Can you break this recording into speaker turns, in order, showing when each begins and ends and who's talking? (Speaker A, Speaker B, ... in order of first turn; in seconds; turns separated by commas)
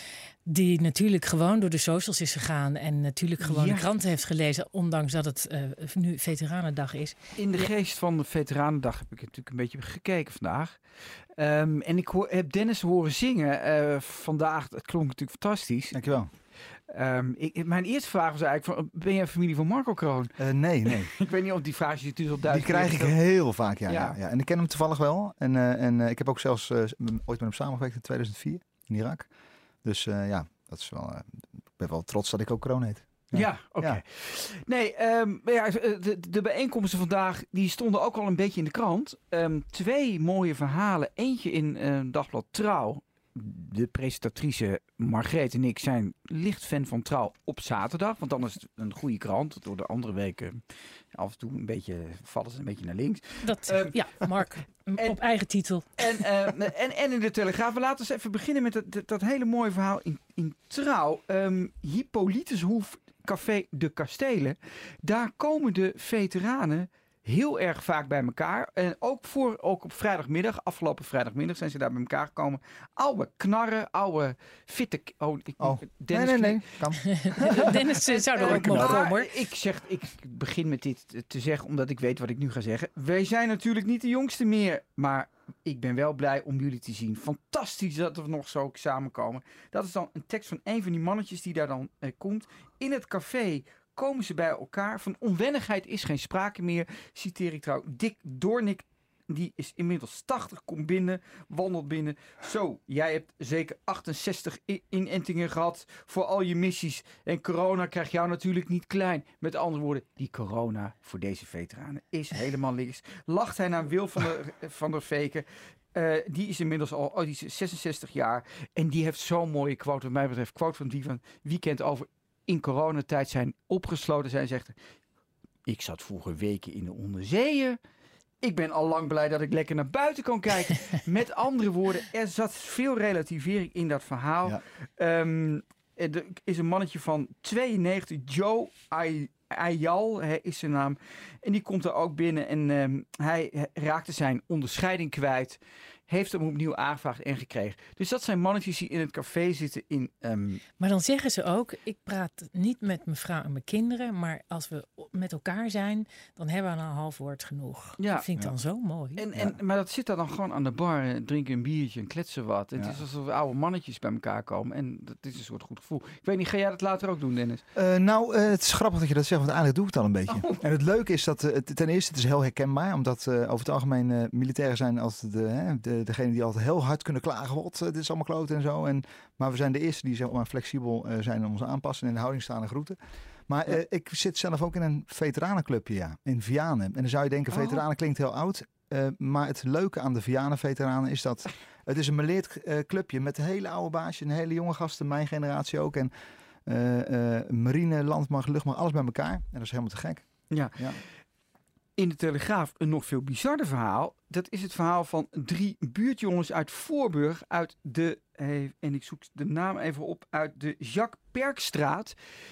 Speaker A: 0.5-7.3, Speaker B: 3.4-3.9, Speaker B: 7.4-10.8, Speaker B: 11.4-16.0, Speaker C: 15.9-16.3, Speaker B: 16.9-23.2, Speaker C: 20.4-21.1, Speaker C: 22.4-29.3, Speaker B: 23.9-24.2, Speaker C: 29.8-34.0, Speaker B: 33.3-50.6, Speaker B: 51.1-54.4, Speaker A: 53.4-56.2, Speaker B: 56.0-76.8, Speaker C: 75.6-77.8, Speaker A: 77.1-79.3, Speaker B: 77.6-124.8, Speaker C: 78.5-79.1, Speaker B: 125.7-127.8, Speaker B: 128.4-150.6, Speaker A: 150.8-159.2, Speaker B: 158.0-158.3, Speaker B: 159.2-167.6, Speaker C: 162.8-163.0, Speaker C: 167.7-183.0, Speaker B: 170.3-170.6, Speaker C: 183.5-196.1, Speaker B: 187.5-187.8, Speaker C: 196.7-201.0, Speaker B: 200.5-200.9, Speaker B: 202.0-212.2